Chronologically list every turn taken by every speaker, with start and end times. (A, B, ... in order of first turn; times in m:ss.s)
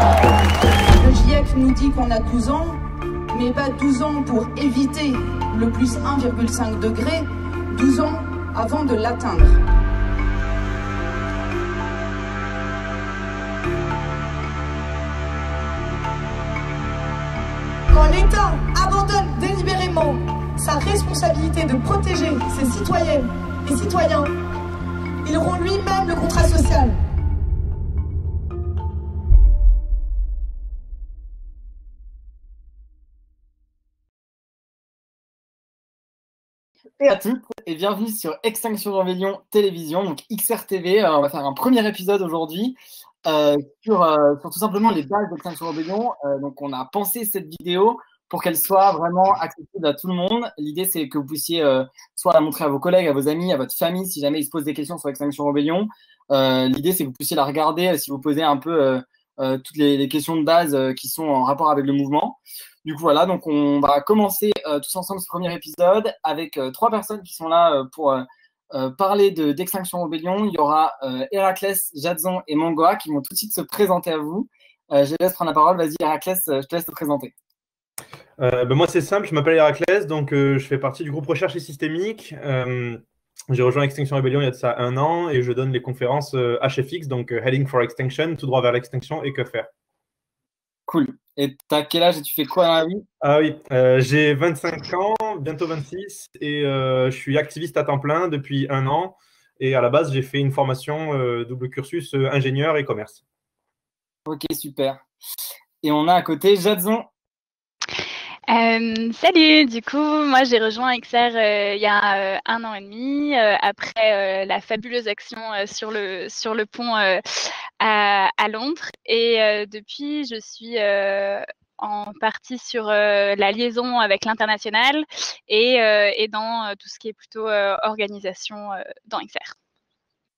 0:01.0-0:02.8 A
0:03.3-0:09.6 A
0:17.9-0:24.3 B
0:25.2-0:27.0 B
0:37.0-1:17.3 C
1:18.4-1:29.7 D
1:30.9-1:33.0 C
1:33.2-1:43.2 D
1:44.3-1:45.0 C
1:45.8-1:47.1 C
1:48.5-2:09.5 E